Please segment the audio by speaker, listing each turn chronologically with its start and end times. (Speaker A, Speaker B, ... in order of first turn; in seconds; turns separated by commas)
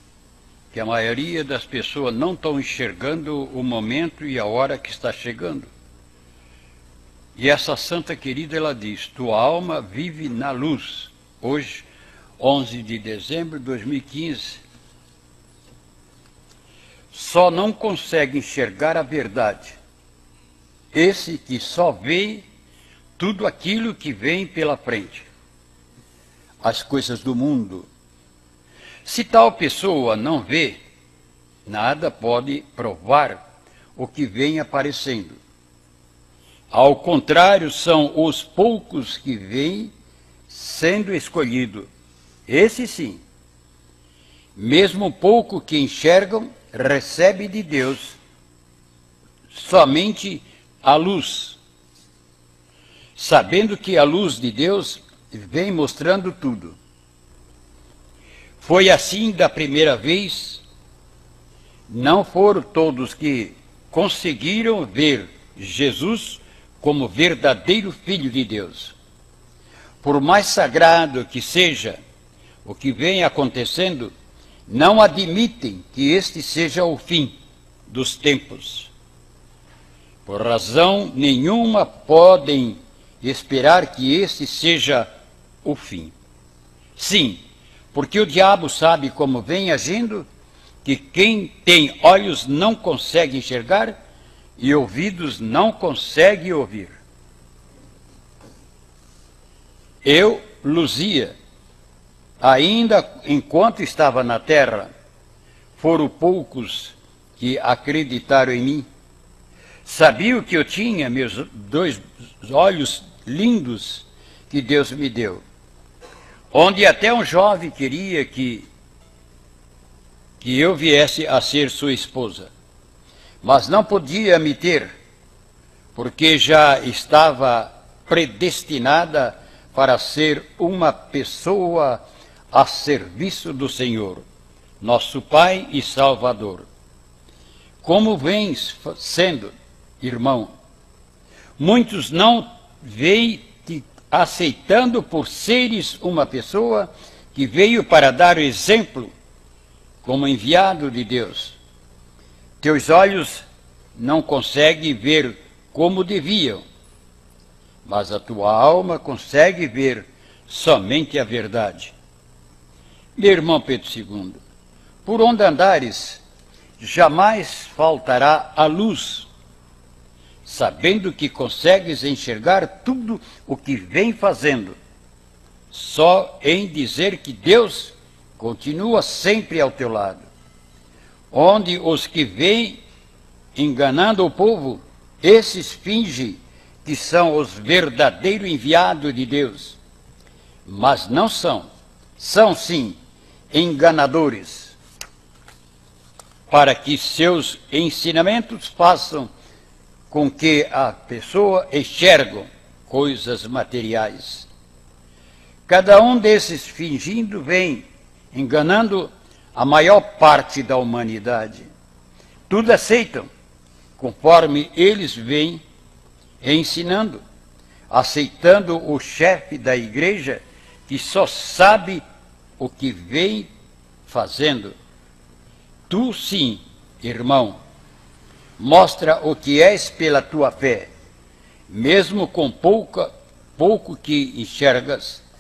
Speaker A: 0.7-5.7, Speaker A: 7.4-11.9, Speaker A: 12.4-14.6, Speaker A: 17.1-19.8, Speaker A: 20.9-22.4, Speaker A: 23.2-25.3, Speaker A: 26.6-27.9, Speaker A: 29.0-30.8, Speaker A: 31.7-33.4, Speaker A: 34.0-35.4, Speaker A: 36.7-39.9, Speaker A: 40.5-41.9, Speaker A: 42.5-43.2, Speaker A: 44.6-48.2, Speaker A: 49.5-51.6, Speaker A: 53.2-56.8, Speaker A: 58.6-60.6, Speaker A: 61.9-69.0, Speaker A: 70.0-72.0, Speaker A: 72.7-74.1, Speaker A: 74.7-77.3, Speaker A: 77.9-78.9, Speaker A: 80.3-85.1, Speaker A: 85.6-86.2, Speaker A: 87.0-87.4, Speaker A: 87.9-90.3, Speaker A: 90.8-94.0, Speaker A: 94.6-97.0, Speaker A: 100.0-101.3, Speaker A: 102.4-104.9, Speaker A: 105.8-108.9, Speaker A: 109.8-115.4, Speaker A: 116.5-118.7, Speaker A: 120.4-122.5, Speaker A: 123.4-124.9, Speaker A: 126.0-132.0, Speaker A: 132.5-134.2, Speaker A: 134.8-136.7, Speaker A: 137.8-140.5, Speaker A: 141.6-149.1, Speaker A: 150.0-151.6, Speaker A: 152.6-153.4, Speaker A: 154.0-156.6, Speaker A: 157.8-161.9, Speaker A: 163.2-164.4, Speaker A: 165.1-166.2, Speaker A: 166.8-169.3, Speaker A: 170.4-174.8, Speaker A: 175.7-180.2, Speaker A: 181.3-182.8, Speaker A: 183.6-189.8, Speaker A: 190.7-191.7, Speaker A: 192.2-193.0, Speaker A: 193.5-194.8, Speaker A: 196.5-199.3, Speaker A: 200.1-204.5, Speaker A: 205.7-211.7, Speaker A: 212.5-213.3, Speaker A: 214.0-215.6, Speaker A: 216.4-217.2, Speaker A: 217.9-222.0, Speaker A: 222.6-223.5, Speaker A: 224.1-224.7, Speaker A: 225.9-227.6, Speaker A: 228.6-230.9, Speaker A: 231.7-235.2